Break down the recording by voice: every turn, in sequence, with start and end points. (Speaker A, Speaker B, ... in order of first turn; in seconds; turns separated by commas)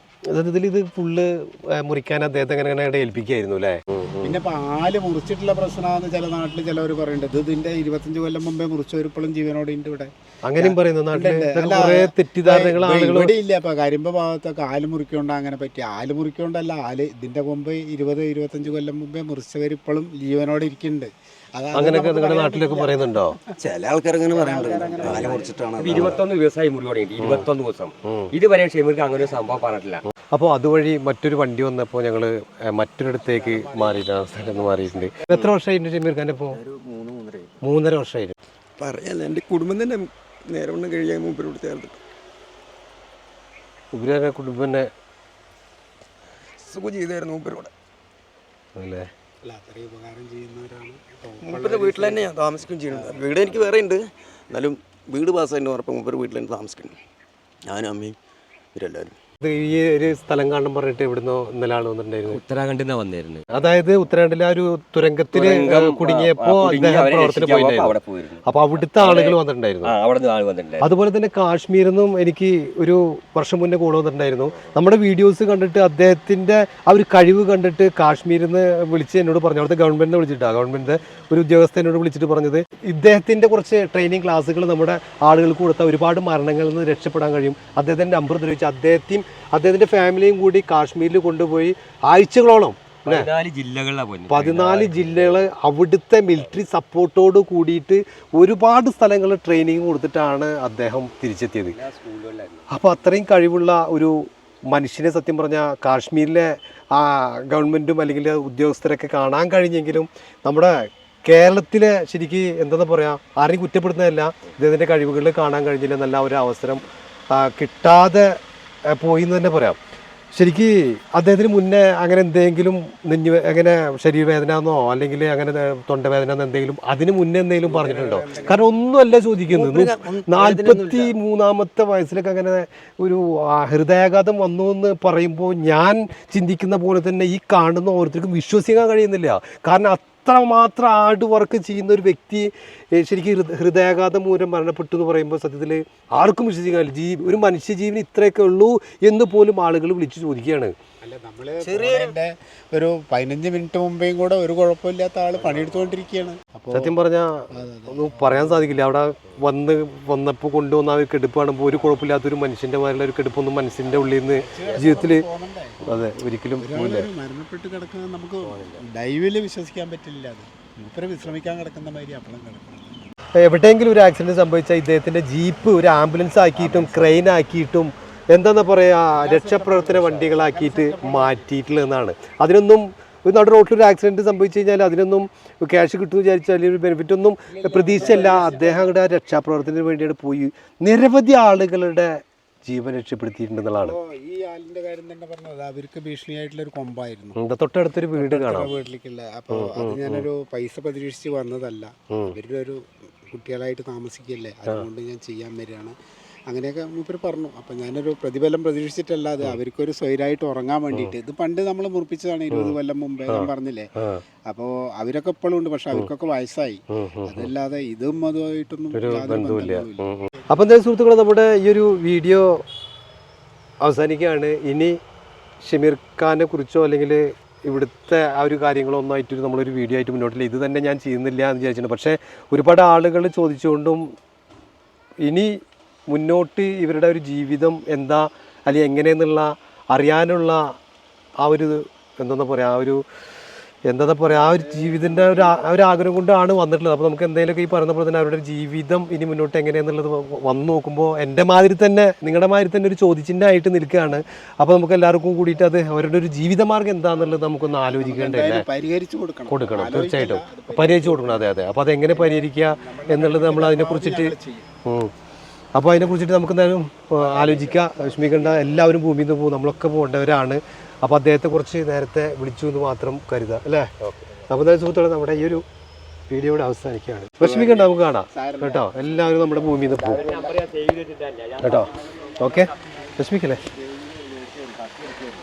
Speaker A: 0.3-4.4, Speaker B: 4.2-23.5, Speaker A: 10.4-13.3, Speaker A: 21.7-23.4, Speaker C: 23.6-26.2, Speaker B: 24.3-26.2, Speaker D: 25.1-30.0, Speaker A: 27.2-27.4, Speaker A: 28.0-28.3, Speaker A: 30.3-36.6, Speaker B: 33.2-35.5, Speaker C: 36.5-37.6, Speaker A: 37.6-38.3, Speaker C: 38.8-42.0, Speaker A: 43.9-44.9, Speaker C: 46.6-47.7, Speaker A: 48.8-49.1, Speaker B: 49.4-52.3, Speaker C: 51.4-57.0, Speaker B: 52.9-53.6, Speaker C: 57.6-58.1, Speaker C: 58.7-59.1, Speaker A: 59.4-62.4, Speaker D: 62.3-63.5, Speaker A: 63.5-69.9, Speaker D: 65.3-70.9, Speaker A: 70.8-93.3, Speaker D: 93.0-95.5, Speaker A: 94.3-101.8, Speaker D: 101.7-102.7, Speaker A: 102.7-118.4, Speaker A: 118.9-119.8, Speaker A: 120.3-150.7, Speaker B: 127.6-128.6, Speaker C: 129.5-131.1, Speaker B: 151.0-156.9, Speaker C: 151.6-152.2, Speaker A: 156.7-165.2, Speaker B: 157.5-158.7, Speaker B: 163.9-165.8, Speaker A: 165.8-167.1, Speaker B: 166.6-173.0, Speaker D: 168.4-168.8, Speaker A: 173.4-193.9, Speaker B: 176.5-177.2, Speaker B: 179.2-181.5, Speaker B: 187.5-189.0, Speaker B: 193.8-197.3, Speaker A: 197.4-198.7, Speaker B: 198.2-205.9, Speaker A: 199.5-200.2, Speaker B: 206.5-213.9, Speaker A: 213.3-214.2, Speaker B: 214.5-220.0, Speaker A: 216.9-217.5, Speaker A: 218.9-222.6, Speaker A: 223.8-225.0, Speaker A: 225.6-234.1, Speaker A: 235.2-240.8, Speaker A: 241.4-243.0, Speaker A: 243.8-258.6, Speaker B: 244.8-245.4, Speaker B: 257.1-264.7, Speaker A: 259.5-264.3, Speaker A: 264.9-265.1, Speaker A: 265.7-273.9, Speaker B: 267.2-268.7, Speaker A: 274.5-275.6, Speaker A: 276.3-280.2, Speaker B: 277.4-280.6, Speaker D: 280.1-282.7, Speaker A: 281.6-283.6, Speaker B: 283.7-285.2